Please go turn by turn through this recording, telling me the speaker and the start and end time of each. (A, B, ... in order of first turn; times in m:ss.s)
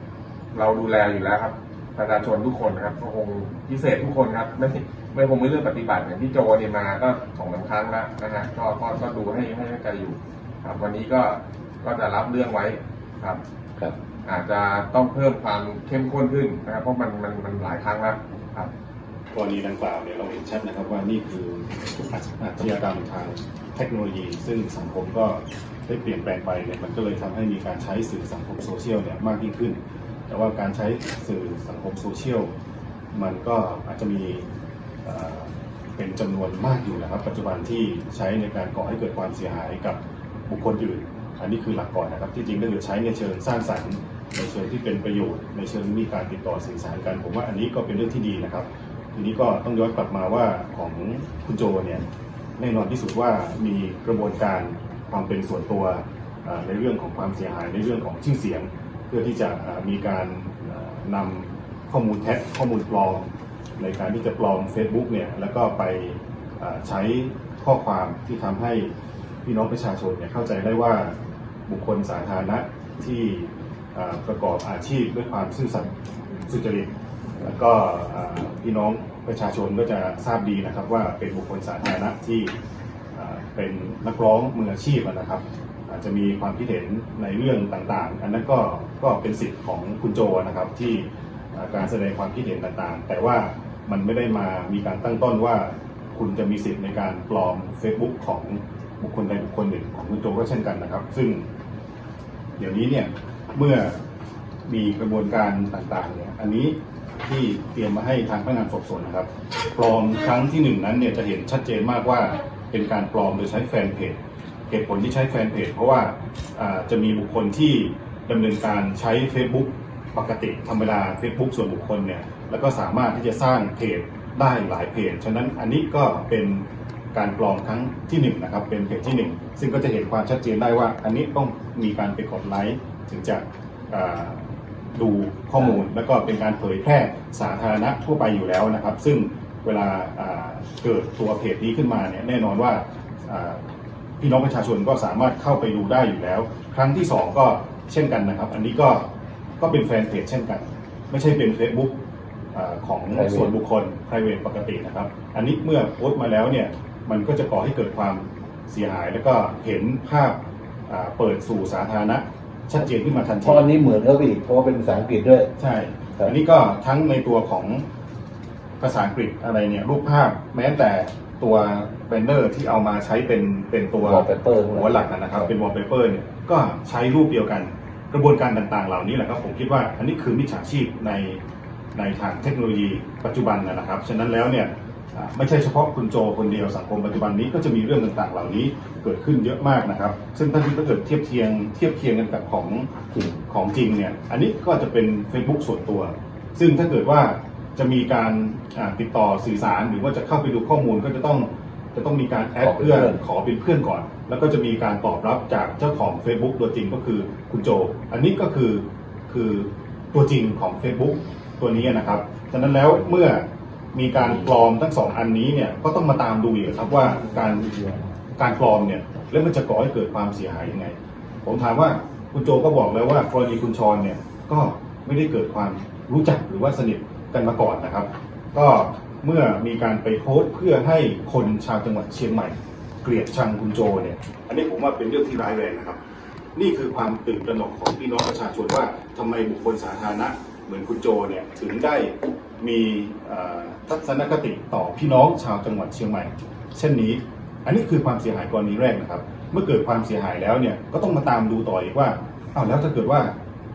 0:00.5-0:13.4 A
0:14.2-0:18.7 A
0:19.3-0:32.5 B
0:33.1-0:34.5 B
0:35.0-0:52.0 B
0:52.6-1:08.9 B
1:09.4-1:11.2 B
1:11.7-1:15.9 B
1:16.5-1:22.5 B
1:23.2-1:41.5 B
1:42.6-1:44.0 B
1:44.7-1:54.2 B
1:54.7-2:23.6 B
2:24.2-2:29.1 B
2:29.6-2:32.0 B
2:32.5-2:43.7 B
2:33.1-2:33.6 C
2:43.4-2:45.5 C
2:45.6-2:47.8 B
2:48.8-3:01.4 B
2:54.0-2:55.5 C
3:02.0-3:12.9 B
3:13.1-3:13.4 C
3:13.5-3:56.0 B
3:22.6-3:23.2 C
3:56.6-4:13.3 B